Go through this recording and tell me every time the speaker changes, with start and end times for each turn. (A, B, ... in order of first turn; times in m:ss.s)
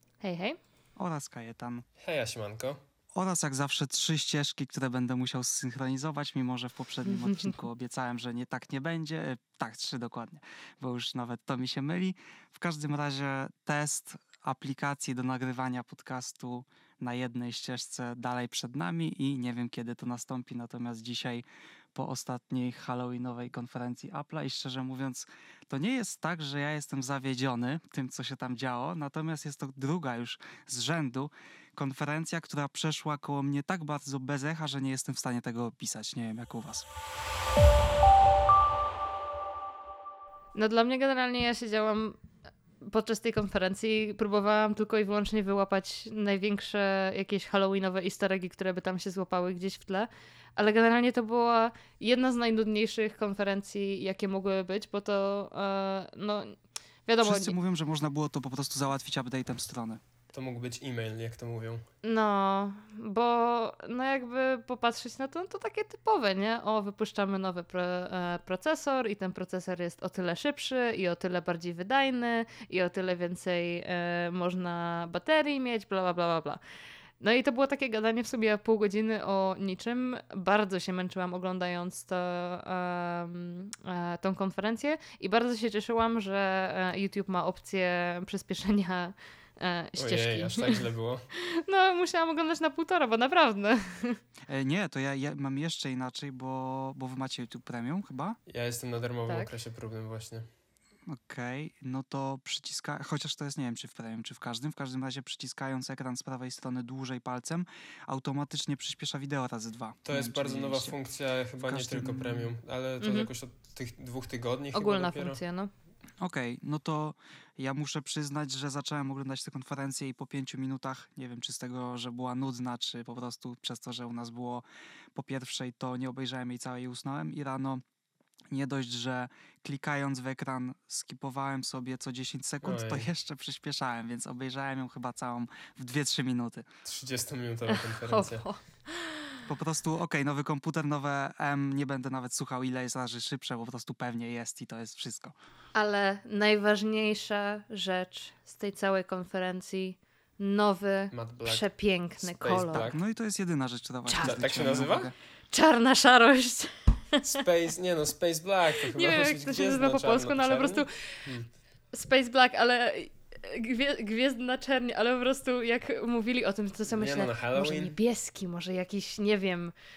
0:00.2-0:00.6 A
0:01.0-0:01.8 B
0:02.0-0:02.8 C
0:03.1-0:36.9 B
0:07.2-0:07.5 A
0:40.5-0:42.2 A
0:42.8-0:57.5 A
0:57.2-1:00.0 B
1:00.3-1:01.8 C
1:02.0-1:16.6 A
1:17.2-1:34.2 A
1:30.0-1:31.2 C
1:34.5-1:38.4 B
1:38.5-1:40.5 C
1:41.1-1:51.0 B
1:50.0-1:55.4 C
1:51.6-1:52.5 B
1:53.0-1:53.3 A
1:54.7-1:55.7 A
1:56.2-2:04.6 B
2:05.1-2:07.8 B
2:08.5-2:16.6 B
2:12.6-2:13.1 C
2:16.8-2:18.5 C
2:17.7-2:19.4 A
2:19.4-2:25.3 B
2:25.7-2:32.9 A
2:31.1-2:31.7 C
2:32.2-2:33.0 C
2:32.7-2:35.1 B
2:34.1-2:34.8 A
2:34.2-2:35.1 C
2:35.5-2:37.4 A
2:37.2-2:41.5 C
2:38.9-2:40.9 A
2:41.9-2:49.7 A
2:46.9-2:48.0 C